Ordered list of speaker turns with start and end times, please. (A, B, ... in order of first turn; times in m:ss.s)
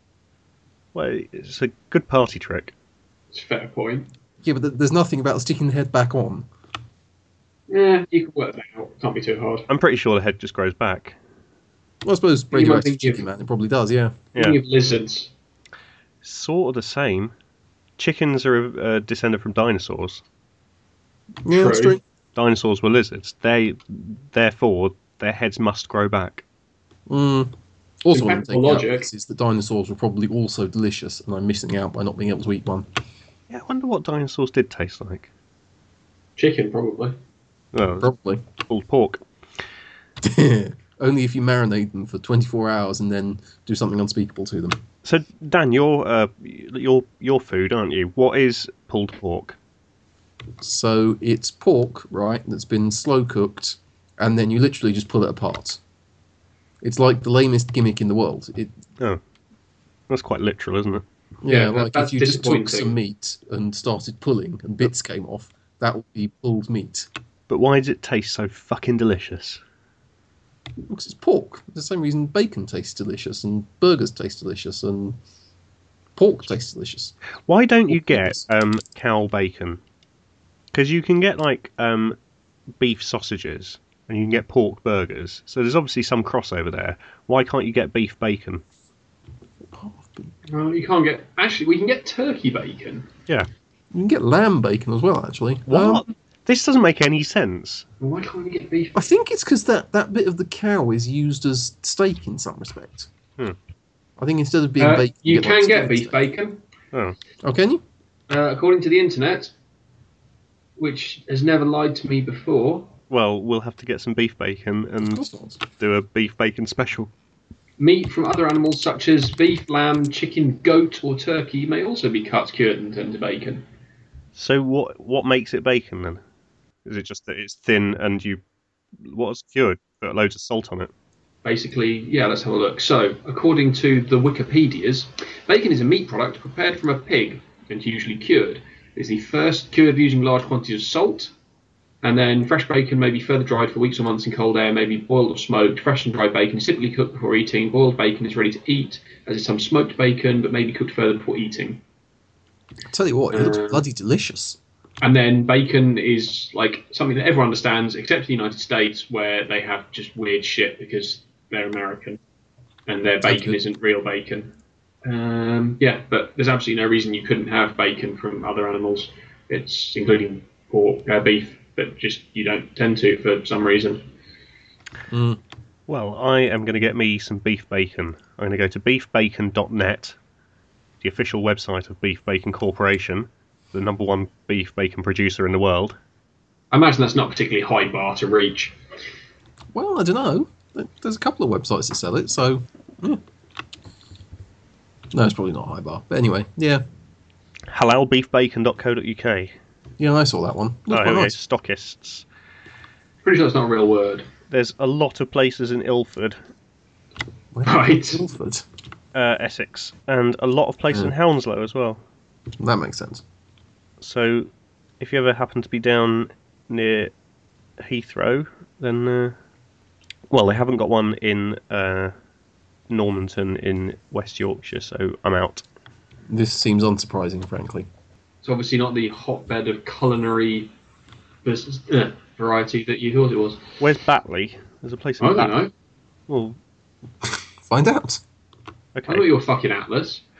0:00.9-0:02.7 A
0:03.3-0:04.1 B
0:04.4-0:06.5 C
0:07.7-0:09.7 B
0:09.7-0:11.2 A
0:12.0-0:14.2 C
0:12.5-0:13.2 B
0:14.3-0:14.6 A
0:14.3-0:15.3 B
0:16.2-0:17.3 A
0:18.0-0:20.2 A
0:21.4-0:22.0 C
0:21.5-0:22.0 B
0:22.4-0:26.4 A
0:27.1-0:32.9 C
0:28.1-0:29.1 B
0:33.5-0:35.3 A
0:36.4-0:37.2 B
0:37.7-0:39.2 A
0:38.0-0:38.4 C
0:40.2-0:44.8 C
0:45.0-0:49.6 A
0:50.6-0:55.8 C
0:56.8-0:58.7 C
1:00.1-1:01.0 A
1:01.4-1:07.1 C
1:01.5-1:02.9 B
1:07.5-1:09.6 A
1:10.9-1:15.2 C
1:16.2-1:17.1 C
1:17.5-1:19.8 A
1:17.9-1:18.4 C
1:20.7-1:22.2 A
1:22.8-1:28.6 A
1:29.7-1:30.3 C
1:30.5-1:33.1 B
1:33.9-1:36.0 C
1:35.7-1:37.8 A
1:38.0-1:39.0 B
1:38.9-1:43.1 C
1:44.2-1:46.1 C
1:44.8-1:46.6 B
1:47.4-1:47.8 C
1:48.3-1:49.5 B
1:50.8-1:52.9 B
1:53.1-1:55.2 A
1:55.0-1:55.6 C
1:55.7-1:57.1 A
1:57.8-2:03.6 B
2:04.4-2:06.2 A
2:06.8-2:08.4 A
2:09.0-2:10.9 A
2:11.4-2:21.3 B
2:22.0-2:31.8 B
2:32.9-2:34.6 C
2:33.3-2:33.8 B
2:35.0-2:42.2 B
2:42.9-2:44.5 B
2:43.2-2:43.6 C
2:45.0-2:54.1 B
2:55.1-2:55.4 C
2:55.9-3:00.2 A
3:01.0-3:06.0 A
3:06.7-3:08.7 B
3:09.7-3:13.2 C
3:15.1-3:16.8 C
3:17.7-3:19.5 A
3:20.0-3:21.4 C
3:20.9-3:22.2 A
3:23.2-3:24.2 B
3:24.5-3:26.4 A
3:27.5-3:28.6 C
3:27.6-3:28.2 B
3:29.1-3:32.0 A
3:32.6-3:33.2 C
3:34.0-3:37.1 A
3:37.8-3:39.4 A
3:40.3-3:42.1 A
3:42.9-3:45.6 A
3:46.3-3:47.9 C
3:48.4-3:50.7 B
3:51.4-3:53.6 B
3:53.8-3:55.5 A
3:55.2-3:55.7 B
3:56.3-3:56.6 A
3:57.2-3:58.2 C
3:59.0-3:59.3 A
3:59.1-4:00.2 B